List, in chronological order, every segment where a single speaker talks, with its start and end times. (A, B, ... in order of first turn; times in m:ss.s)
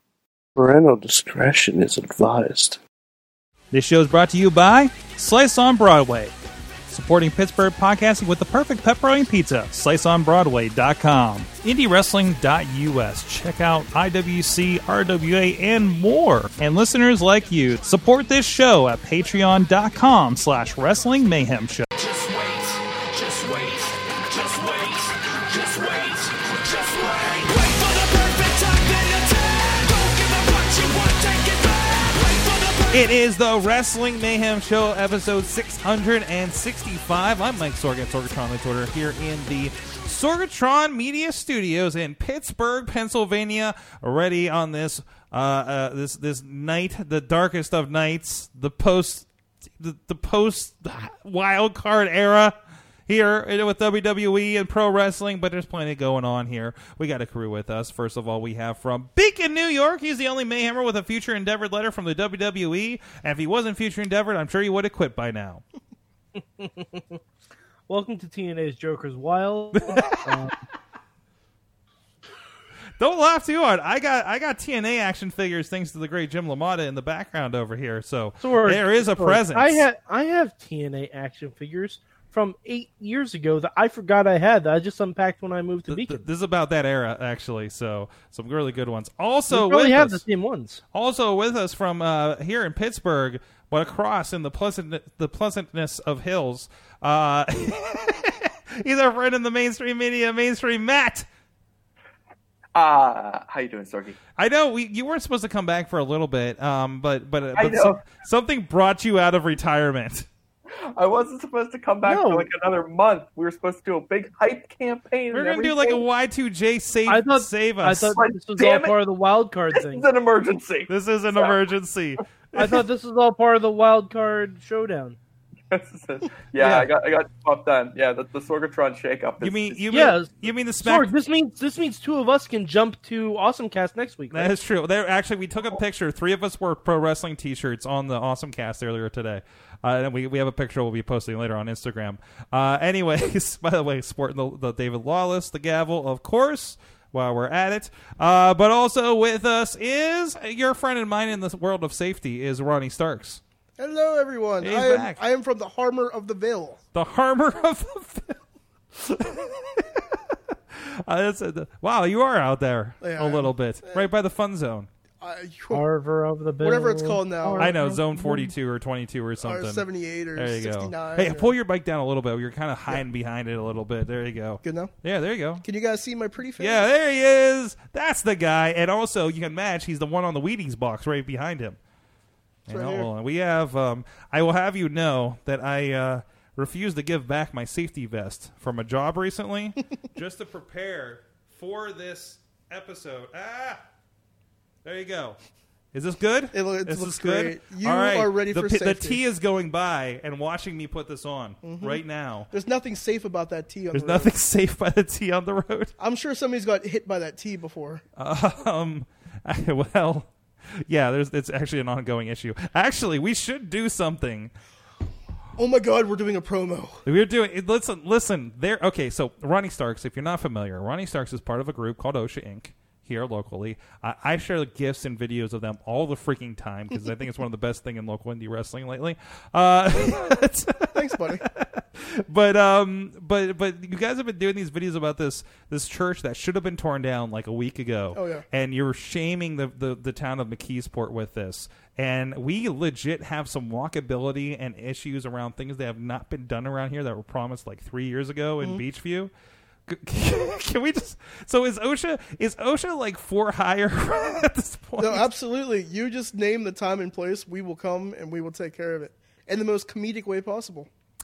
0:00.6-0:02.8 A
0:03.7-0:06.3 B
0:06.9-0:21.8 B
0:22.0-0:33.1 C
0:32.9-0:49.3 B
0:49.8-0:52.5 B
0:53.1-1:05.6 B
1:06.6-1:07.2 D
1:07.9-1:10.6 D
1:09.8-1:10.3 B
1:13.0-1:19.8 B
1:18.4-1:26.2 D
1:25.9-1:30.2 B
1:29.5-1:30.8 D
1:30.9-1:41.2 B
1:42.7-1:44.2 E
1:44.4-1:50.3 B
1:47.5-1:48.0 E
1:50.9-1:56.0 E
1:52.0-1:52.5 D
1:55.3-1:58.2 B
1:57.1-2:00.0 D
1:58.1-1:58.9 E
1:59.7-2:01.6 E
2:00.9-2:02.8 B
2:02.5-2:05.2 D
2:05.7-2:09.8 E
2:09.4-2:11.1 B
2:09.9-2:14.5 D
2:14.3-2:33.4 B
2:33.8-2:36.8 F
2:34.6-2:35.2 B
2:36.9-2:38.4 B
2:39.0-2:40.2 B
2:40.7-2:44.9 B
2:43.0-2:44.1 F
2:45.2-2:45.8 F
2:45.7-2:48.5 D
2:46.6-2:47.7 F
2:47.6-2:55.6 B
2:49.4-2:51.5 F
2:54.6-2:54.9 F
2:55.6-2:56.8 F
2:56.6-3:01.8 B
3:02.6-3:13.8 B
3:02.7-3:03.1 F
3:14.8-3:15.4 B
3:15.9-3:22.5 B
3:16.5-3:19.2 F
3:21.6-3:24.3 F
3:23.9-3:25.9 B
3:26.0-3:28.0 F
3:28.2-3:34.5 B
3:35.6-3:37.0 F
3:37.0-4:09.3 B
3:50.9-3:51.4 F
3:58.1-3:58.4 F
4:09.9-4:15.3 B
4:15.0-4:20.9 F